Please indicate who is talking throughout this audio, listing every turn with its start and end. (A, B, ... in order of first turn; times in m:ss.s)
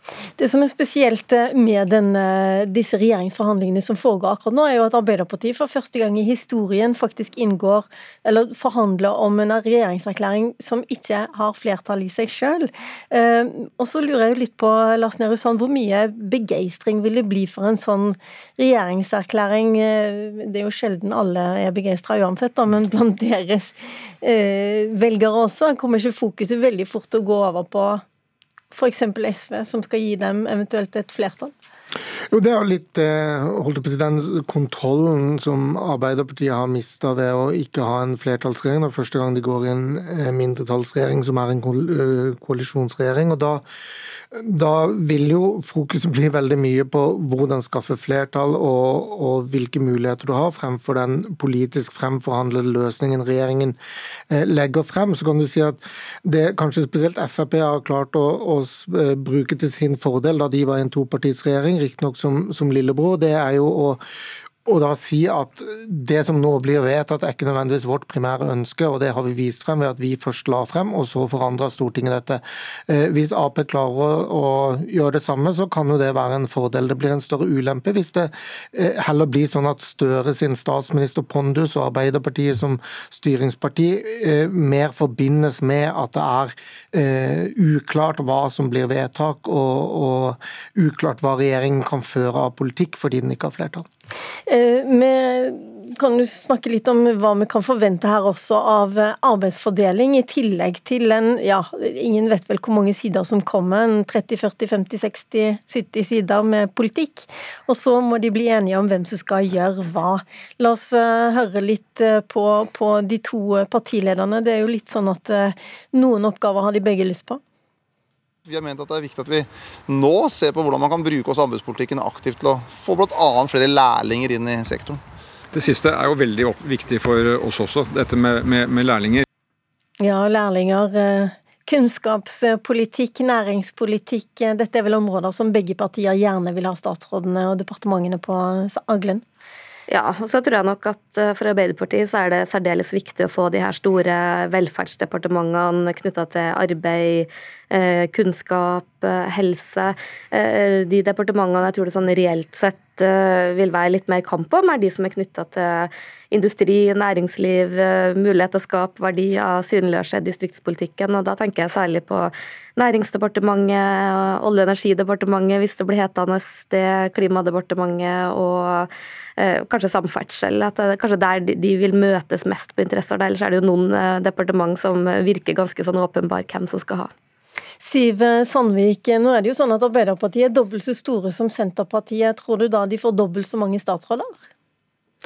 0:00.4-0:28.0 A
0:28.7-0:31.5 A
0:32.3-0:43.6 B
0:44.3-0:53.8 B
0:54.3-1:04.0 B
1:04.6-1:33.8 B
1:34.5-1:57.4 A
1:58.5-2:05.0 C
2:05.5-2:09.2 D
2:10.0-2:19.2 A
2:19.9-2:48.9 E
2:49.4-2:57.1 E
2:57.8-3:04.4 A